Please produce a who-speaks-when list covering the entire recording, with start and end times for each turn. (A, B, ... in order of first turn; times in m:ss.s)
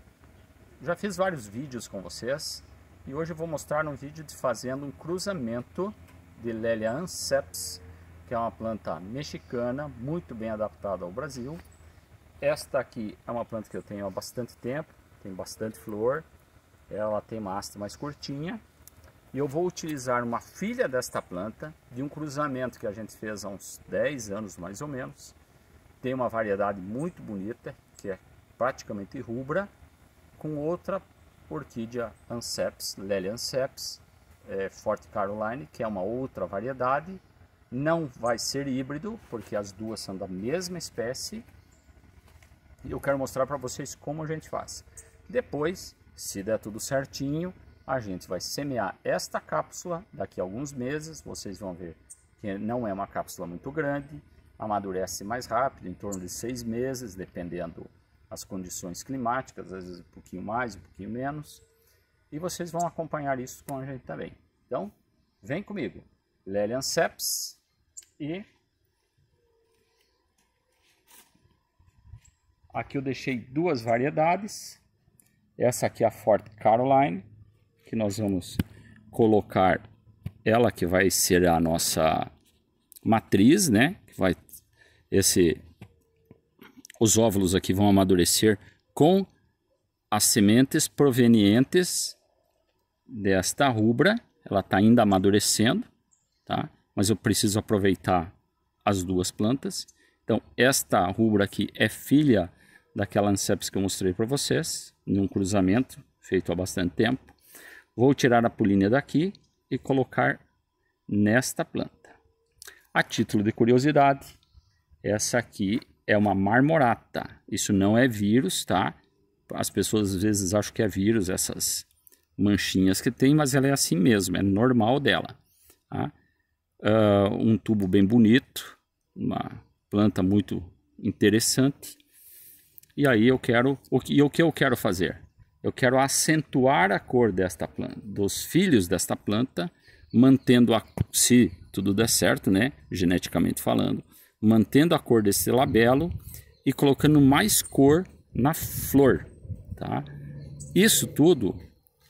0:00.8-0:11.6 A
0:12.4-0:16.2 A
0:16.9-0:18.6 A
0:19.3-0:25.3 A
0:26.0-0:29.7 A
0:30.4-0:41.4 A
0:42.8-1:01.6 A
1:02.3-1:07.6 A
1:08.2-1:08.4 A
1:12.7-1:14.8 A
1:15.6-1:17.2 A
1:17.8-1:19.8 A
1:20.4-1:22.3 A
1:23.0-1:24.4 A
1:25.1-1:25.6 A
1:27.0-1:29.3 A
1:30.1-1:32.2 A
1:33.1-1:35.9 A
1:36.4-1:38.3 A
1:38.8-1:47.3 A
1:48.0-1:50.4 A
1:51.1-1:52.2 A
1:52.9-1:54.3 A
1:55.0-1:59.0 A
1:59.5-2:05.4 A
2:06.8-2:12.0 A
2:13.0-2:30.1 A
2:30.7-2:31.6 A